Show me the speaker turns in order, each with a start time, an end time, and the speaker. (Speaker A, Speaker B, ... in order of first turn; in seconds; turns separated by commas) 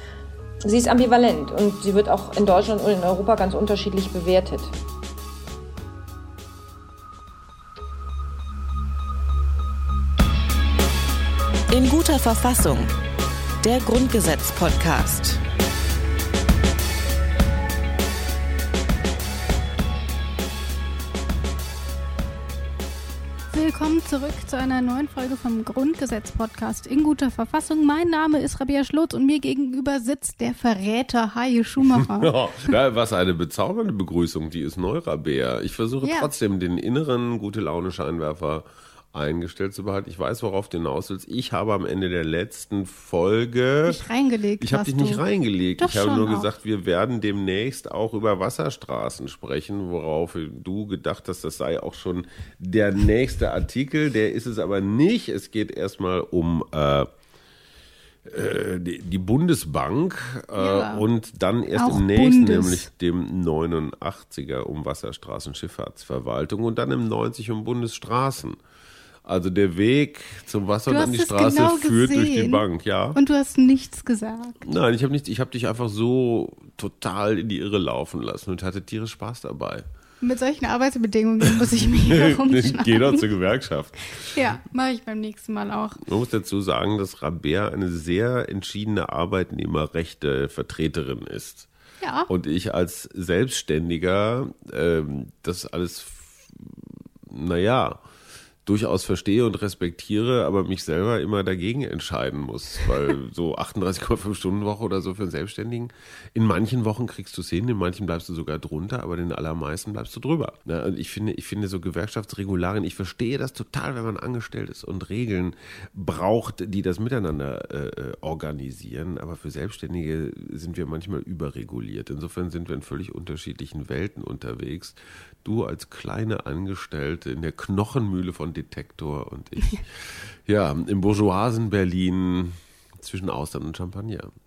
Speaker A: 0.6-4.7, Speaker B: 11.7-12.9, Speaker B: 13.6-15.4, Speaker C: 23.5-32.3, Speaker D: 31.8-44.0, Speaker C: 36.0-36.3, Speaker C: 43.9-45.2, Speaker D: 44.6-57.1, Speaker C: 45.8-46.5, Speaker D: 58.3-68.6, Speaker C: 60.5-61.0, Speaker C: 61.7-62.9, Speaker D: 69.2-73.2, Speaker C: 70.9-72.6, Speaker C: 73.1-74.6, Speaker D: 74.6-79.8, Speaker C: 80.2-83.2, Speaker D: 81.4-84.4, Speaker C: 84.2-86.0, Speaker D: 86.0-91.7, Speaker C: 92.0-92.3, Speaker D: 92.3-98.0, Speaker D: 98.6-134.3